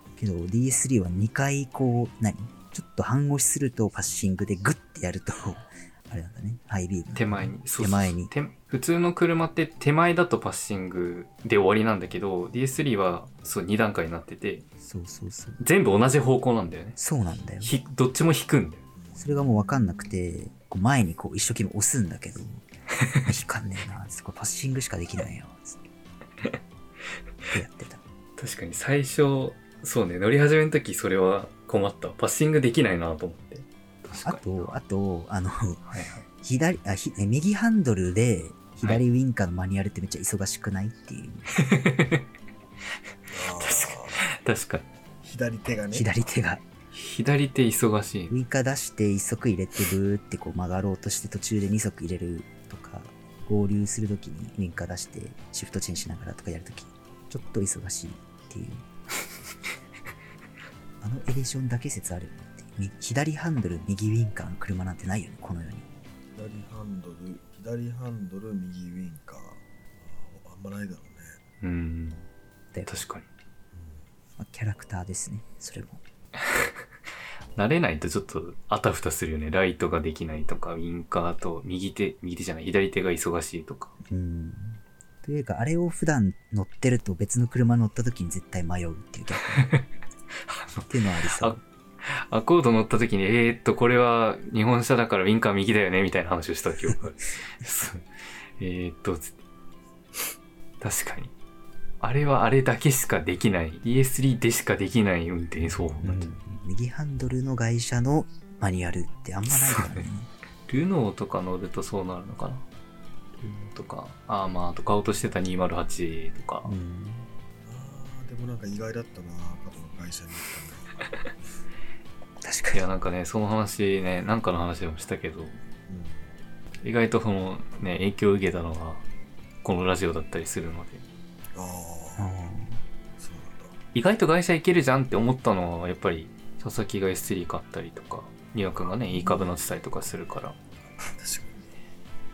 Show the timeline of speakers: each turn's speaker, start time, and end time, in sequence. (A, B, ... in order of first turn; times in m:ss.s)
0:00.2-0:08.3 A
0:07.1-0:14.6 B
0:14.8-0:15.6 A
0:15.6-0:17.0 B
0:17.0-0:17.7 A
0:17.6-0:18.8 B
0:19.0-0:19.6 C
0:19.1-0:22.6 A
0:23.2-0:25.8 A
0:27.5-0:28.0 A
0:28.4-0:34.8 B
0:34.1-0:35.8 A
0:35.8-0:36.2 B
0:36.4-0:41.5 A
0:41.6-0:42.2 B
0:43.3-0:44.2 C
0:43.4-0:44.9 B
0:45.2-0:46.1 C
0:45.9-0:46.6 A
0:46.9-0:48.4 B
0:48.3-0:58.8 A
1:01.0-1:05.9 A
1:06.3-1:11.4 C
1:11.6-1:12.3 B
1:12.7-1:13.0 A
1:12.8-1:13.3 B
1:13.7-1:14.1 C
1:14.4-1:16.0 A
1:16.4-1:16.7 B
1:17.6-1:23.9 B
1:24.0-1:29.6 A
1:29.4-1:29.8 B
1:30.5-1:38.0 B
1:30.9-1:31.6 A
1:38.6-1:39.4 B
1:40.8-1:41.3 B
1:42.0-1:46.3 B
1:45.6-1:50.3 A
1:49.5-1:50.1 B
1:50.7-1:52.6 B
1:53.4-1:56.7 B
1:56.6-1:57.3 A
1:57.6-2:00.9 C
2:02.4-2:02.9 A
2:02.7-2:05.6 B
2:05.9-2:06.3 C
2:06.8-2:09.0 B
2:09.6-2:11.0 B
2:11.5-2:12.3 C
2:12.2-2:12.8 A
2:13.2-2:13.7 C
2:13.9-2:20.6 B
2:19.2-2:19.5 C
2:21.0-2:21.8 C